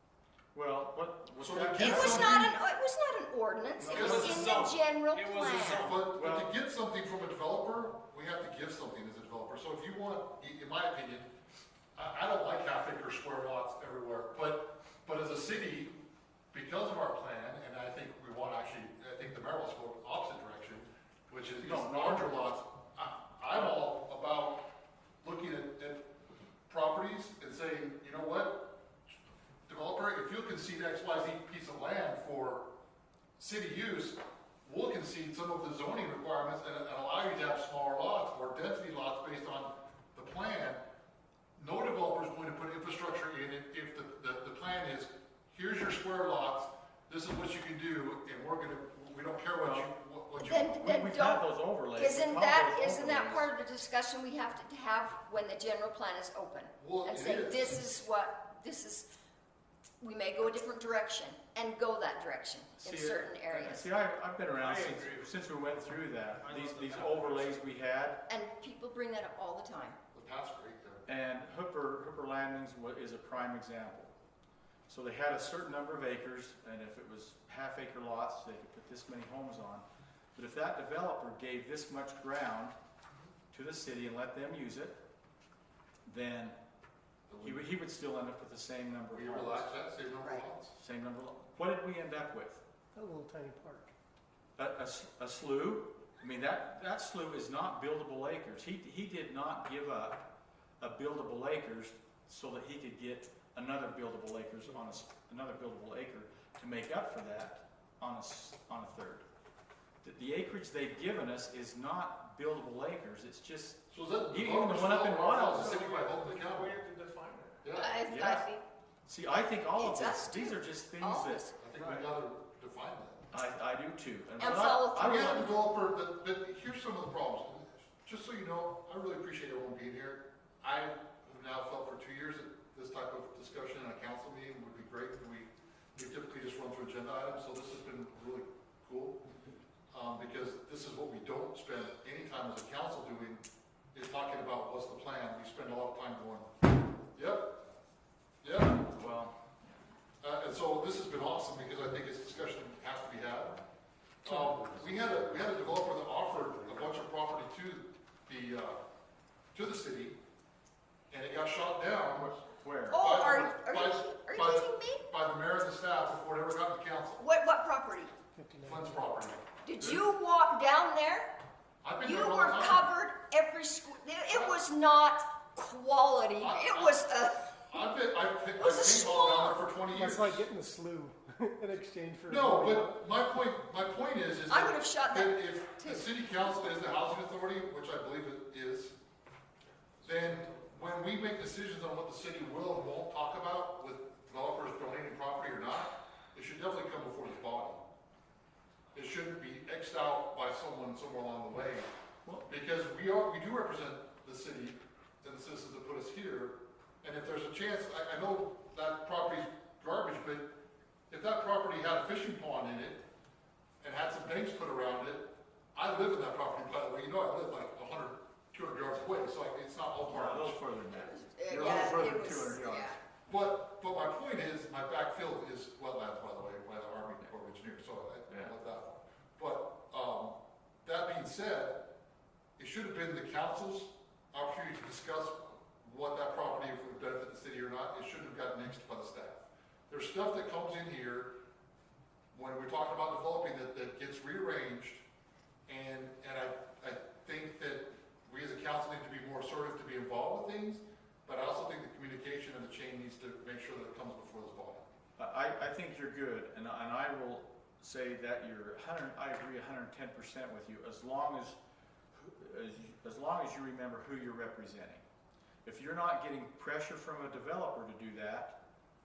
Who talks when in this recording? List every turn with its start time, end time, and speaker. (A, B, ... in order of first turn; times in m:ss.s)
0:00.5-0:02.4 A
0:01.4-0:02.6 B
0:01.7-0:05.9 C
0:03.8-0:06.0 D
0:03.9-0:04.5 B
0:05.7-0:11.3 B
0:06.1-0:06.5 A
0:11.9-0:15.9 B
0:16.5-0:24.6 B
0:21.6-0:22.2 A
0:25.2-0:26.1 B
0:26.7-0:28.8 B
0:29.7-0:32.7 B
0:33.4-0:40.8 B
0:41.6-0:50.8 B
0:49.6-0:49.9 A
0:50.4-0:59.1 C
0:50.7-0:53.5 A
0:56.8-0:57.8 B
1:00.0-1:03.9 C
1:02.8-1:08.2 A
1:04.4-1:07.6 D
1:08.3-1:10.0 C
1:10.1-1:11.0 B
1:11.0-1:14.1 A
1:14.9-1:19.8 A
1:20.3-1:22.7 A
1:23.5-1:25.0 A
1:26.0-1:26.6 A
1:27.3-1:27.7 B
1:27.4-1:29.7 A
1:29.1-1:30.7 B
1:30.7-1:32.6 A
1:32.9-1:33.9 E
1:34.6-1:40.3 A
1:40.8-1:49.2 A
1:50.0-1:55.7 A
1:53.9-1:56.8 B
1:55.5-1:57.6 D
1:57.6-1:58.0 B
1:57.7-1:58.6 C
1:58.0-1:58.4 A
1:59.0-2:01.4 A
1:59.8-2:01.6 C
2:01.6-2:03.2 B
2:03.3-2:05.5 A
2:04.4-2:05.5 C
2:05.0-2:19.2 B
2:19.9-2:26.5 B
2:27.1-2:27.7 B
2:28.4-2:28.9 B
2:28.9-2:29.4 A
2:30.2-2:33.6 B
2:34.2-2:38.8 B
2:39.5-2:40.2 B
2:41.1-2:42.4 B
2:42.4-2:43.0 A
2:42.9-2:45.0 C
2:42.9-2:47.2 B
2:47.2-2:48.1 C
2:48.3-2:49.1 E
2:48.6-2:50.0 B
2:49.6-2:51.3 C
2:51.8-2:52.9 B
2:52.0-2:57.7 C
2:54.3-2:54.6 B
2:56.4-2:57.0 B
2:57.7-3:00.5 B
2:58.6-2:59.6 C
2:59.9-3:03.0 E
3:02.3-3:09.0 B
3:04.5-3:06.0 C
3:10.0-3:17.8 B
3:10.2-3:10.6 D
3:18.9-3:21.9 B
3:22.4-3:30.5 B
3:31.1-3:33.0 B
3:33.8-3:40.6 B
3:40.1-3:43.0 A
3:41.0-3:43.0 C
3:41.5-3:42.1 B
3:43.3-3:51.9 B
3:48.3-3:48.5 A
3:52.6-4:01.3 B
4:02.3-4:05.0 B
4:05.7-4:14.9 B
4:15.2-4:21.6 A
4:22.1-4:25.0 A
4:25.6-4:28.6 A